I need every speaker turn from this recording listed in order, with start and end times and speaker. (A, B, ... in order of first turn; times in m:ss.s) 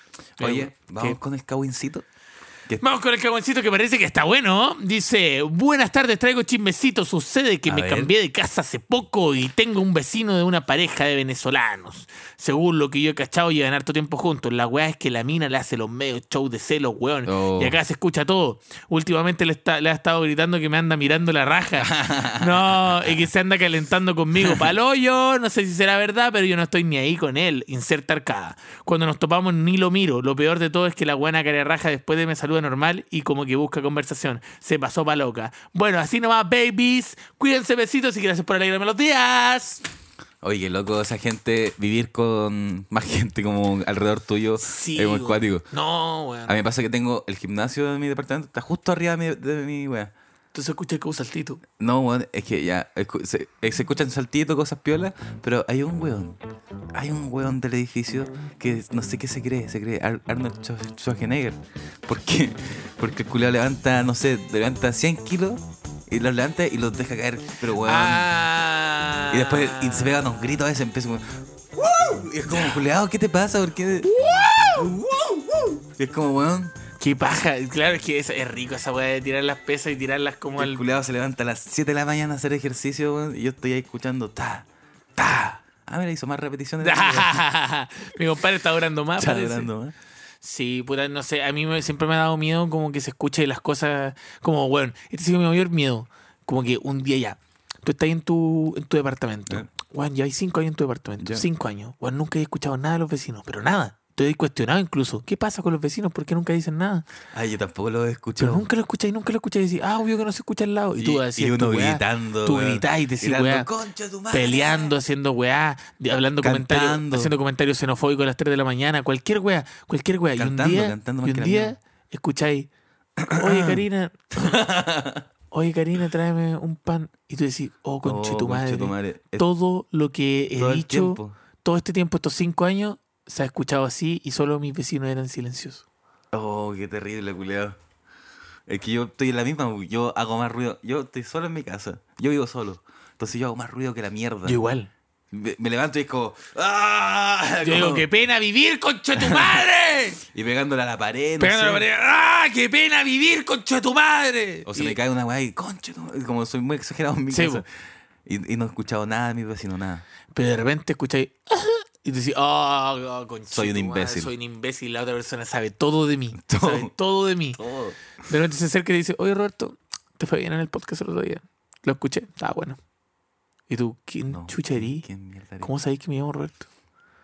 0:00.4-0:01.2 A
0:00.4-0:02.0 B
0:02.8-0:39.8 A
0:07.7-0:08.1 B
0:17.3-0:17.8 B
0:21.8-0:23.3 B
0:24.4-0:24.7 B
0:40.4-0:45.6 B
0:44.6-0:46.6 A
0:46.5-0:50.1 B
0:50.5-0:51.6 A
0:51.8-0:56.4 B
0:56.9-1:08.3 B
1:07.8-1:10.2 A
1:09.3-1:14.1 B
1:14.0-1:14.9 A
1:14.7-1:16.8 B
1:17.0-1:20.8 A
1:20.6-1:24.7 B
1:25.2-1:25.6 A
1:25.9-1:27.3 B
1:26.8-1:29.7 A
1:29.2-1:29.9 B
1:30.4-1:47.1 A
1:41.2-1:41.4 B
1:47.3-1:48.7 B
1:48.4-1:53.7 A
1:51.0-1:54.9 B
1:54.3-2:02.7 A
1:56.4-1:57.3 B
2:00.4-2:01.8 B
2:03.2-2:03.8 B
2:03.3-2:04.6 A
2:04.4-2:05.2 B
2:05.5-2:15.8 A
2:08.0-2:09.4 B
2:10.6-2:11.4 B
2:16.3-2:17.8 B
2:18.7-2:24.6 B
2:24.4-2:24.9 A
2:25.3-2:28.1 B
2:27.6-2:30.2 A
2:29.1-2:29.6 B
2:30.3-2:31.9 B
2:31.4-2:35.0 A
2:34.7-2:37.7 B
2:37.3-2:37.6 A
2:38.3-2:40.0 B
2:40.3-2:47.6 A
2:43.5-2:44.3 B
2:46.4-2:46.9 B
2:47.6-2:48.0 B
2:48.2-2:52.8 A
2:53.7-2:55.1 A
2:54.3-2:55.7 B
2:55.6-2:56.6 A